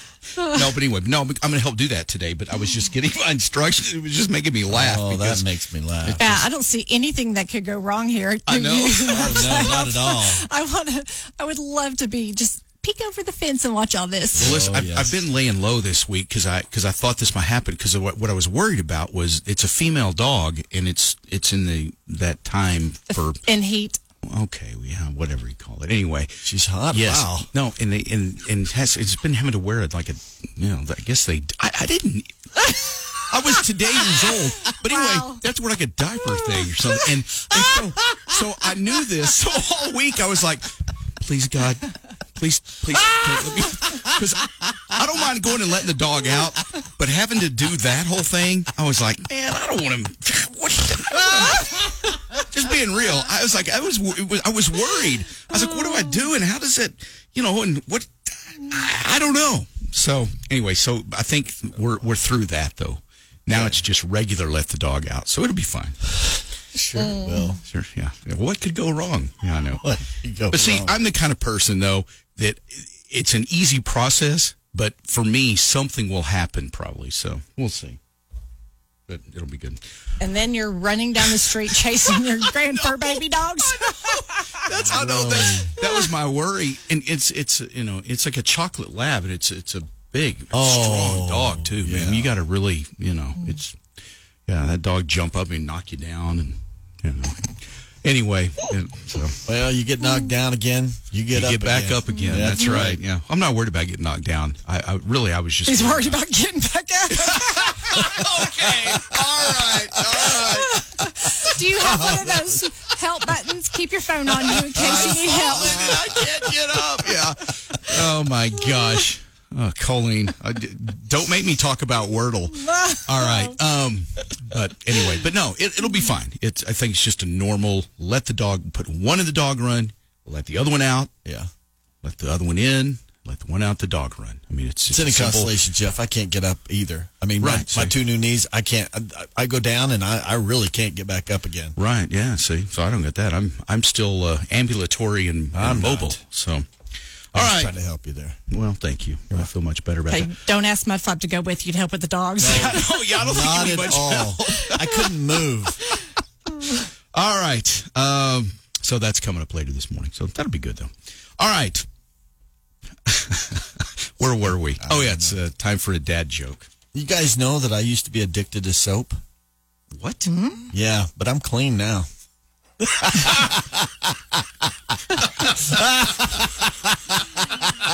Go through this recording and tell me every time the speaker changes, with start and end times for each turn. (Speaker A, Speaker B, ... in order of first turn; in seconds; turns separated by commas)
Speaker A: 0.4-5.5, Speaker B: 4.7-6.3, Speaker A: 6.0-6.3, Speaker C: 6.2-14.6, Speaker A: 8.5-9.6, Speaker B: 9.1-10.4, Speaker B: 14.3-15.2, Speaker A: 14.4-23.4, Speaker C: 23.4-24.0, Speaker A: 24.2-26.3, Speaker B: 26.4-27.5, Speaker A: 26.9-66.0, Speaker C: 34.6-35.4, Speaker B: 63.5-63.8, Speaker B: 66.7-67.6, Speaker C: 67.0-67.6, Speaker A: 67.7-69.8, Speaker B: 69.8-70.9, Speaker A: 70.5-78.0, Speaker A: 79.1-79.8, Speaker C: 80.2-84.6, Speaker A: 82.7-83.1, Speaker A: 83.7-93.8, Speaker B: 84.7-85.8, Speaker B: 90.5-92.3, Speaker A: 94.5-97.5, Speaker A: 98.0-99.4, Speaker B: 99.4-103.0, Speaker A: 101.3-106.2, Speaker C: 102.2-102.8, Speaker C: 105.7-107.9, Speaker A: 107.1-110.9, Speaker B: 108.6-110.3, Speaker C: 110.3-115.9, Speaker B: 111.8-112.3, Speaker A: 114.7-131.1, Speaker B: 114.7-117.2, Speaker C: 122.7-123.5, Speaker A: 132.0-135.6, Speaker B: 134.9-141.8, Speaker A: 137.4-137.9, Speaker A: 141.8-146.7, Speaker B: 145.5-146.2, Speaker A: 147.3-147.7, Speaker B: 147.3-148.4, Speaker A: 148.5-150.3, Speaker C: 150.1-153.2, Speaker B: 152.4-155.8, Speaker A: 152.4-155.1, Speaker A: 157.1-161.9, Speaker A: 163.1-166.7, Speaker B: 164.8-165.4, Speaker B: 166.9-169.2, Speaker A: 169.9-170.3, Speaker C: 170.3-170.7, Speaker B: 170.7-172.1, Speaker B: 172.8-174.1, Speaker B: 175.2-176.7